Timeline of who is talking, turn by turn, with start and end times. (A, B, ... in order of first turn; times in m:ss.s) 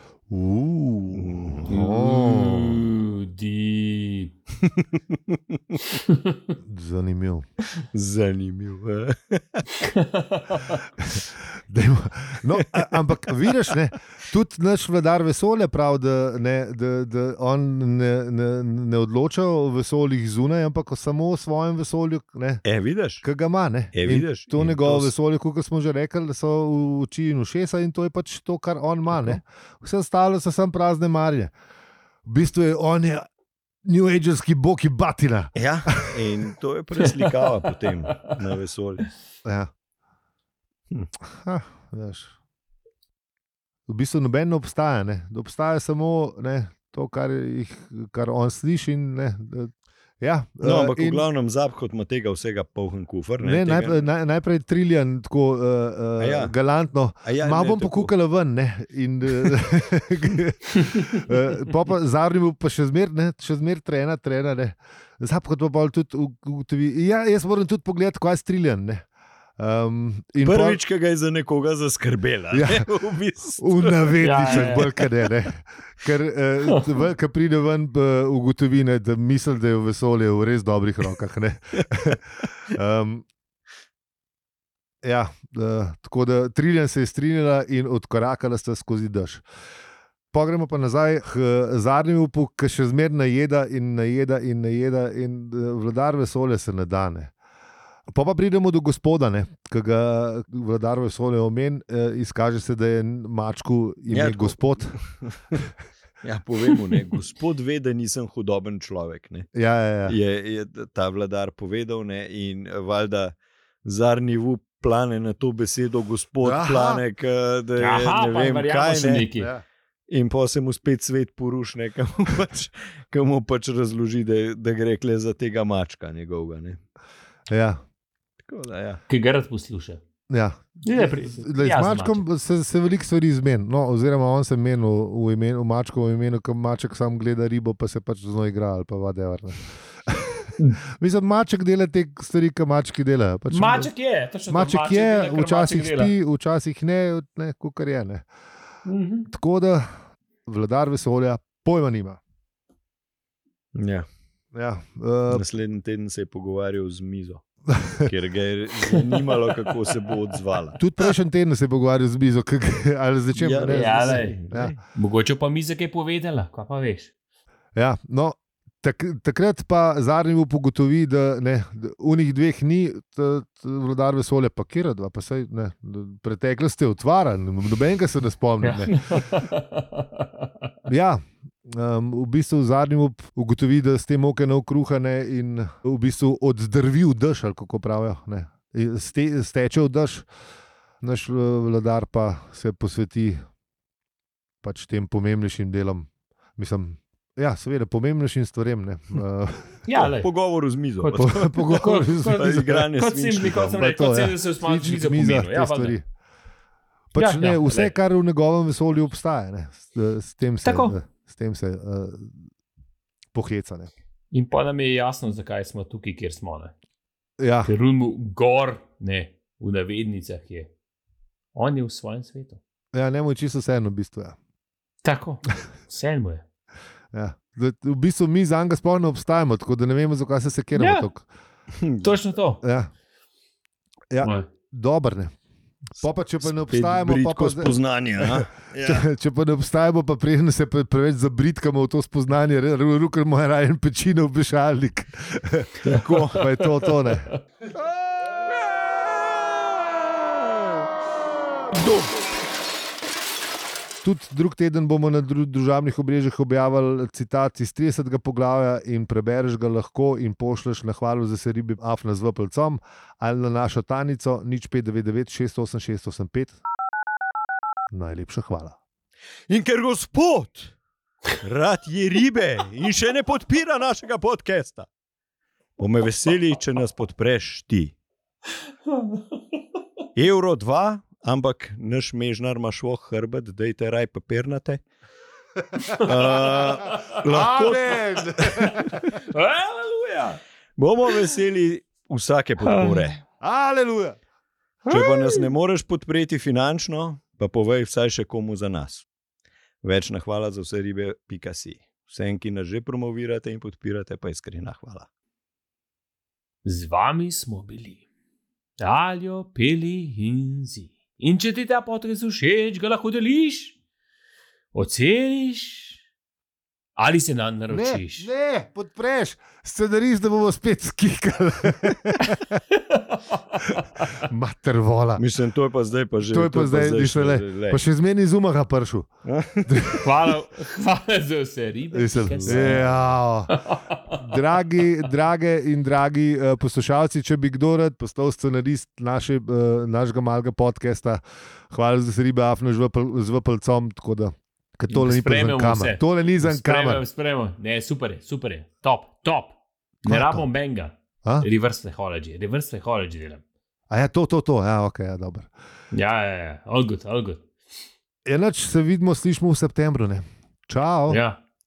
0:00.3-0:02.8 A
0:01.1-0:01.7 B
0:01.7-0:04.3 C
0:04.6-0:05.6 B
0:05.9-0:06.6 C
0:06.6-0:07.5 A
0:07.9-0:09.7 B
0:09.8-0:10.8 C
0:11.6-0:22.6 A
0:22.6-0:23.2 B
0:23.2-0:31.5 A
0:23.9-0:25.1 B
0:32.2-0:33.3 A
0:33.8-0:35.5 A
0:35.6-0:39.1 B
0:36.1-0:36.5 A
0:39.4-0:39.7 A
0:41.3-0:42.3 A
0:43.9-0:51.2 A
0:50.6-0:54.0 B
0:53.4-1:09.1 A
0:56.2-0:56.5 B
0:57.2-0:58.1 B
1:00.8-1:01.1 C
1:09.6-1:10.8 A
1:10.4-1:15.1 B
1:12.5-1:12.9 A
1:13.6-1:23.3 A
1:14.2-1:14.9 C
1:25.0-1:29.4 A
1:30.3-1:37.3 A
1:38.1-1:44.9 A
1:44.1-1:45.7 B
1:46.2-1:49.5 B
1:49.5-1:50.2 A
1:50.1-1:59.3 B
1:56.4-1:57.0 A
1:57.8-1:59.5 C
2:00.1-2:06.8 B
2:07.5-2:07.8 A
2:08.4-2:09.0 B
2:09.1-2:10.0 C
2:10.3-2:23.9 A
2:10.8-2:12.2 C
2:23.5-2:26.1 C
2:24.5-2:28.3 A
2:28.8-2:29.3 C
2:29.3-2:29.9 A
2:30.5-2:32.2 A
2:33.8-2:34.1 B
2:34.5-2:35.4 A
2:35.3-2:37.4 B
2:37.7-2:38.1 A
2:38.0-2:40.8 B
2:40.8-2:44.8 A
2:43.4-2:44.8 B
2:43.7-2:44.4 C
2:44.9-2:47.1 C
2:47.8-2:59.0 A
2:58.6-3:00.5 C
3:00.9-3:10.3 A
3:11.0-3:13.4 A
3:14.6-3:19.8 A
3:19.9-3:20.3 C
3:20.0-3:23.8 B
3:21.1-3:22.9 A
3:21.7-3:26.0 C
3:23.7-3:26.0 A
3:27.1-3:32.3 A
3:27.2-3:28.0 C
3:30.6-3:31.0 C
3:33.3-3:33.9 A
3:34.3-3:36.7 C
3:37.4-3:37.7 A
3:37.6-3:40.7 C
3:41.6-3:42.6 C
3:42.9-3:44.4 A
3:45.0-3:46.4 C
3:47.1-3:51.3 A
3:50.8-3:51.1 C
3:51.8-3:52.1 B
3:52.0-3:52.6 C
3:52.6-3:52.9 A
3:54.1-3:55.3 A
3:54.2-3:54.5 C
3:56.0-4:07.3 A
3:56.4-3:59.1 B
4:05.8-4:06.4 B
4:06.6-4:06.9 C
4:11.7-4:12.3 B
4:14.0-4:26.6 A
4:27.9-4:28.8 A
4:29.5-4:30.7 B
4:31.4-4:34.9 B
4:35.8-4:37.9 B
4:38.9-4:39.2 C
4:40.2-4:44.8 B
4:45.8-4:46.3 C
4:46.0-4:48.5 B
4:46.8-4:47.2 C
4:47.2-4:49.2 A
4:48.7-4:50.4 C
4:50.8-4:53.2 B
4:52.6-4:53.1 C
4:53.4-4:54.2 A
4:54.8-4:55.5 C
4:54.9-4:59.1 B
4:59.8-5:05.1 B
5:06.6-5:08.0 C
5:08.8-5:13.8 C
5:14.7-5:16.0 C
5:17.0-5:18.3 C
5:17.7-5:22.6 A
5:22.7-5:24.2 C
5:24.1-5:25.2 A
5:25.2-5:27.8 B
5:26.2-5:29.1 A
5:29.2-5:30.0 B
5:29.7-5:30.0 A
5:30.0-5:34.2 C
5:31.9-5:33.6 A
5:32.5-5:33.0 B
5:34.2-5:47.0 A
5:44.9-5:53.4 C
5:50.1-5:50.4 A
5:53.9-5:55.5 A
5:55.9-5:57.4 C
5:58.2-6:01.2 A
6:01.1-6:01.4 C